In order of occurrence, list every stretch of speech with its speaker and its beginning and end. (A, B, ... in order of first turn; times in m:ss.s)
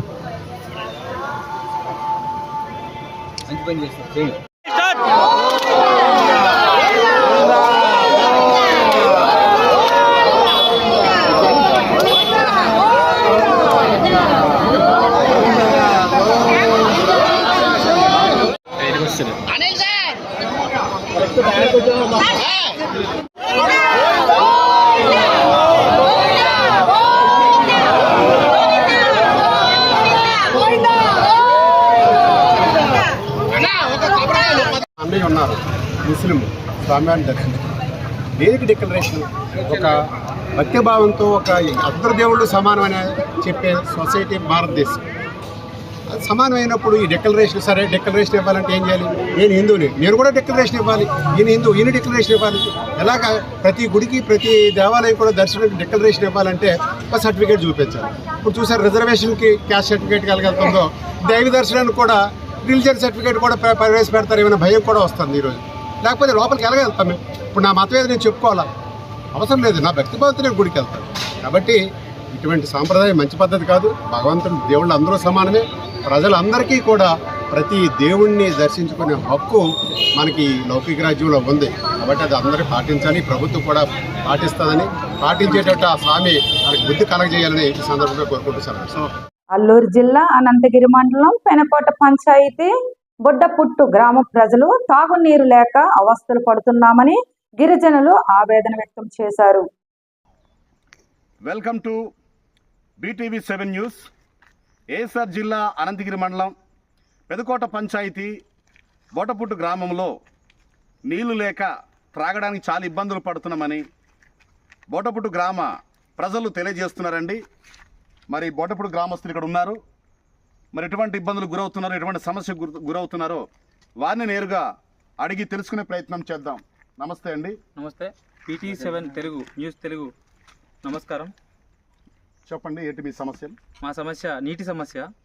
0:35.0-0:37.7 A
0:38.4-0:40.0 A
0:40.6-0:45.0 A
0:46.1-1:08.7 A
1:09.4-1:11.8 A
1:12.3-1:29.0 A
1:29.5-1:32.7 B
1:33.2-1:39.7 B
1:41.5-1:42.0 C
1:43.0-1:44.1 C
1:44.9-1:46.6 C
1:47.3-1:48.3 C
1:49.2-1:50.1 C
1:51.1-1:53.8 C
1:54.9-1:55.7 C
1:56.2-1:57.4 C
1:58.3-1:59.8 C
2:00.7-2:03.4 C
2:04.0-2:04.7 C
2:05.2-2:07.6 C
2:07.8-2:10.1 D
2:10.8-2:11.3 D
2:12.5-2:13.6 C
2:13.8-2:15.1 D